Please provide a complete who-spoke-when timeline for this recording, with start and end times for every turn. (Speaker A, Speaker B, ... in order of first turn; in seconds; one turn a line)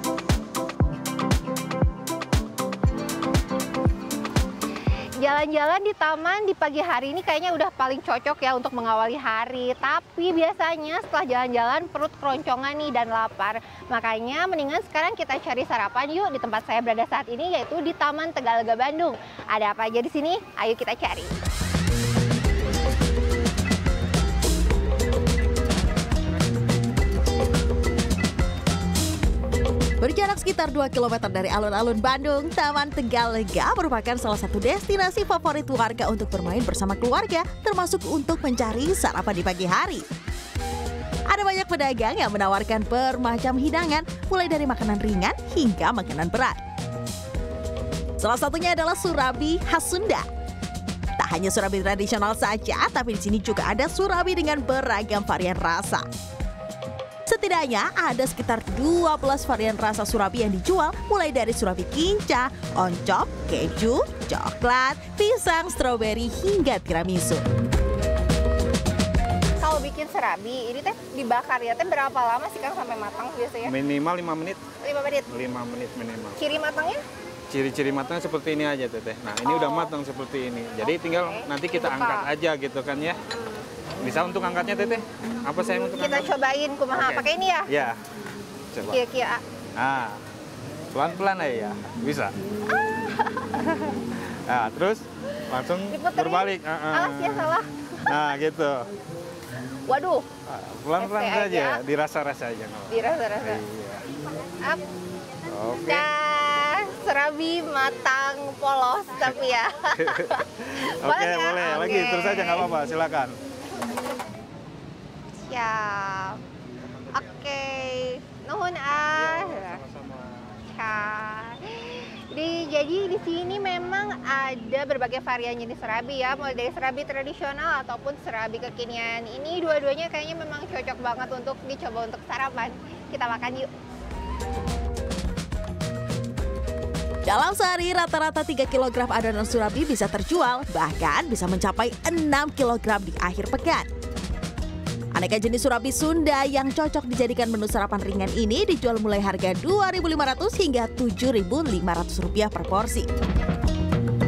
Speaker A: 5.2-21.3
Speaker B: 30.0-40.0
Speaker B: 41.3-46.6
Speaker B: 48.2-50.3
Speaker B: 51.2-56.0
Speaker B: 57.3-67.4
Speaker A: 69.6-73.7
Speaker C: 73.7-74.6
Speaker A: 74.8-75.3
Speaker C: 75.3-76.4
Speaker A: 76.4-77.0
Speaker C: 77.5-83.2
Speaker A: 79.5-79.9
Speaker A: 81.0-82.3
Speaker A: 83.3-83.6
Speaker C: 84.0-86.3
Speaker A: 86.0-87.7
Speaker C: 86.9-88.0
Speaker C: 88.7-89.0
Speaker A: 88.9-89.4
Speaker C: 89.8-90.2
Speaker C: 90.9-92.3
Speaker A: 93.0-93.4
Speaker C: 93.5-98.8
Speaker A: 95.9-97.7
Speaker A: 99.9-100.2
Speaker C: 100.5-104.0
Speaker A: 101.0-101.8
Speaker A: 102.9-103.6
Speaker C: 105.5-106.1
Speaker A: 105.9-112.7
Speaker C: 110.0-113.4
Speaker A: 115.5-116.4
Speaker A: 117.1-119.8
Speaker C: 119.1-120.2
Speaker A: 120.7-133.7
Speaker B: 137.3-143.9
Speaker B: 145.1-153.1